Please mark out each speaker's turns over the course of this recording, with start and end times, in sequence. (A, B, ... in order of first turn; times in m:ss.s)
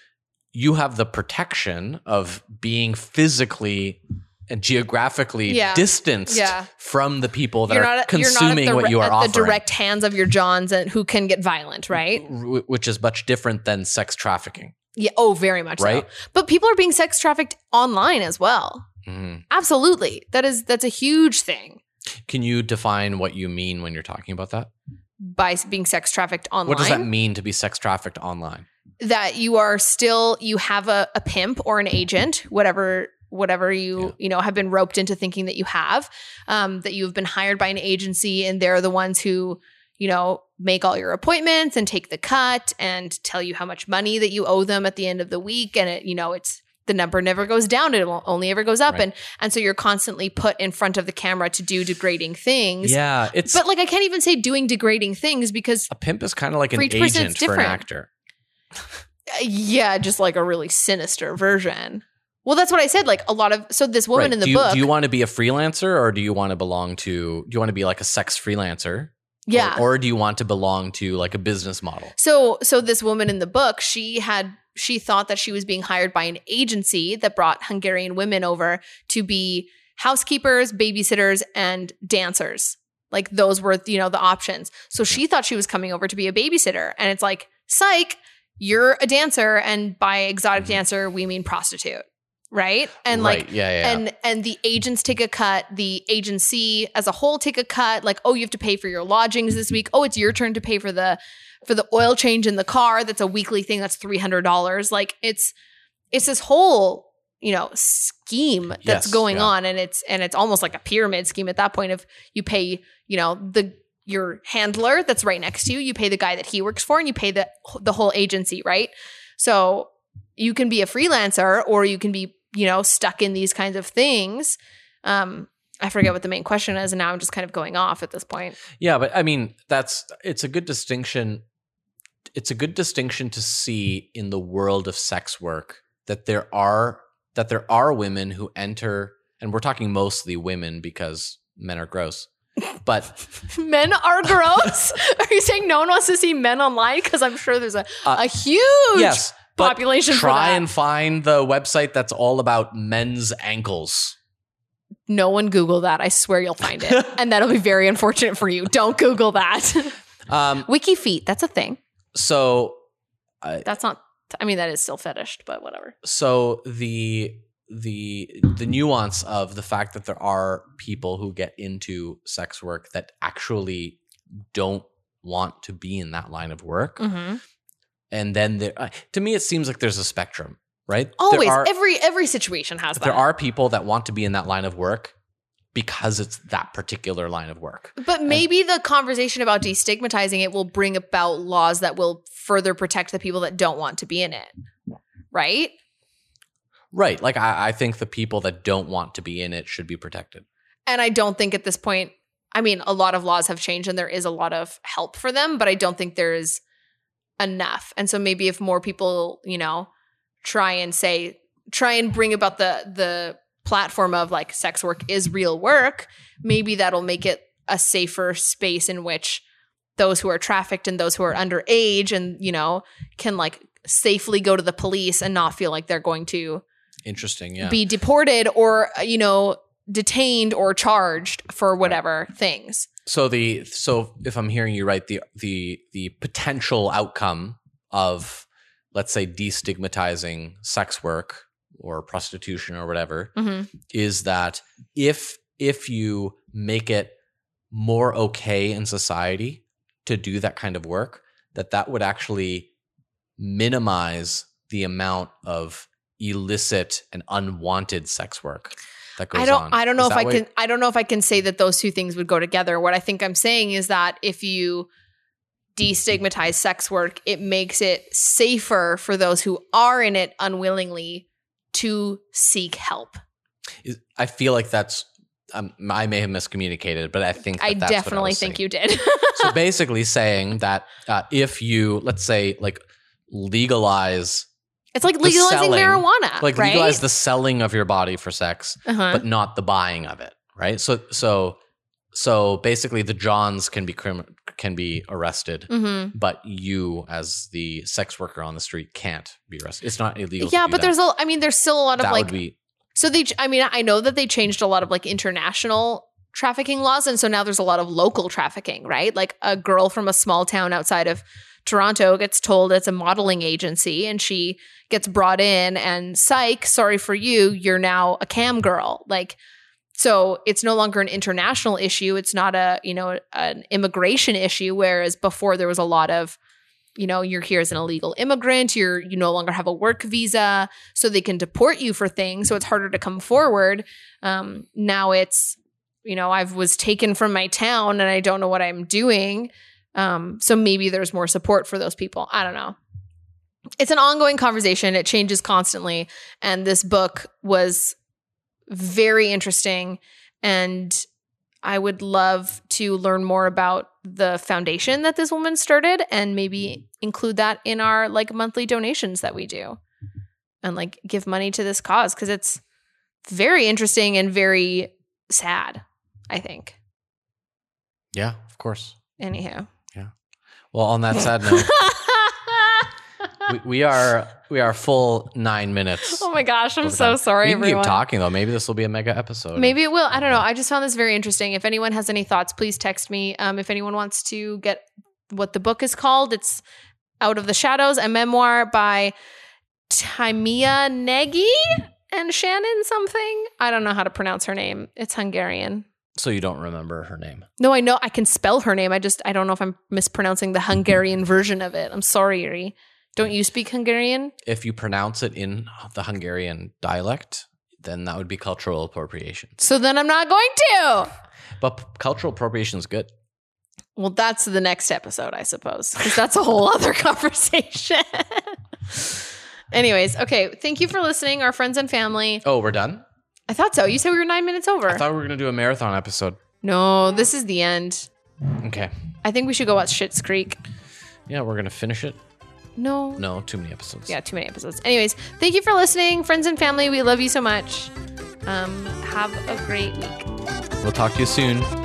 0:00.5-0:09.6 A
0:05.5-0:06.7 B
0:07.7-0:12.2 B
0:12.1-0:14.7 A
0:15.0-0:18.8 B
0:15.8-0:16.1 A
0:19.0-0:19.4 A
0:19.5-0:21.8 B
0:22.3-0:24.7 A
0:25.2-0:27.1 B
0:26.6-0:28.6 A
0:29.0-0:55.9 B
0:52.8-0:53.6 A
0:55.9-0:58.1 A
0:56.7-0:57.8 B
0:59.3-1:04.9 B
1:04.1-1:12.1 A
1:09.5-1:09.8 B
1:12.1-1:45.5 B
1:33.0-1:34.0 A
1:46.1-2:08.6 B
1:48.8-1:49.5 A
2:08.7-2:11.4 A
2:12.3-2:22.3 A
2:22.8-2:23.2 A
2:23.4-2:30.6 B
2:28.9-2:34.2 A
2:35.1-2:40.0 B
2:40.3-2:40.7 A
2:40.6-2:41.8 B
2:42.1-2:42.8 A
2:43.6-2:45.9 B
2:46.0-2:54.0 A
2:54.5-2:57.0 A
2:57.0-2:57.4 B
2:58.1-3:01.7 A
3:01.2-3:03.2 B
3:03.0-3:05.1 A
3:05.7-3:08.4 A
3:08.0-3:14.5 B
3:15.3-3:15.7 B
3:16.9-3:20.4 A
3:20.9-3:26.6 B
3:27.4-3:29.9 B
3:30.4-3:39.4 B
3:40.0-3:46.6 B
3:47.0-3:47.8 A
3:47.6-3:52.9 B
3:53.0-4:03.3 A
4:03.4-4:03.7 B
4:03.9-4:07.1 A
4:07.7-4:12.7 A
4:13.4-4:20.4 A
4:19.3-4:24.9 B
4:25.8-4:33.2 B
4:33.8-4:38.6 A
4:37.6-4:39.6 B
4:39.4-4:44.5 A
4:44.9-4:47.0 B
4:45.2-4:51.6 A
4:48.8-4:49.2 B
4:52.1-5:00.9 A
4:55.7-4:56.1 B
5:00.4-5:02.3 B
5:02.0-5:02.6 A
5:02.9-5:19.4 B
5:20.0-5:26.4 B
5:27.0-5:42.8 B
5:43.8-5:48.0 B
5:48.7-5:51.0 B
5:51.6-5:59.8 B
6:00.6-6:02.6 B
6:03.2-6:06.8 B
6:08.1-6:09.0 A
6:09.2-6:09.7 B
6:10.7-6:11.7 A
6:11.4-6:12.9 B
6:13.4-6:16.3 A
6:16.1-6:18.0 B
6:16.8-6:20.4 A
6:19.5-6:26.6 B
6:27.2-6:29.1 B
6:29.9-6:35.8 B
6:36.2-6:37.4 A
6:37.6-6:44.3 B
6:44.4-6:49.6 A
6:49.6-6:51.1 B
6:51.6-6:53.1 A
6:54.0-7:02.4 B
7:02.4-7:03.0 A
7:03.5-7:05.0 B
7:04.9-7:06.4 A
7:06.6-7:08.1 B
7:08.6-7:08.9 A
7:09.2-7:10.6 B
7:11.3-7:12.2 A
7:12.8-7:13.2 B
7:13.2-7:14.2 A
7:14.1-7:17.9 B
7:18.4-7:20.3 B
7:20.8-7:21.7 A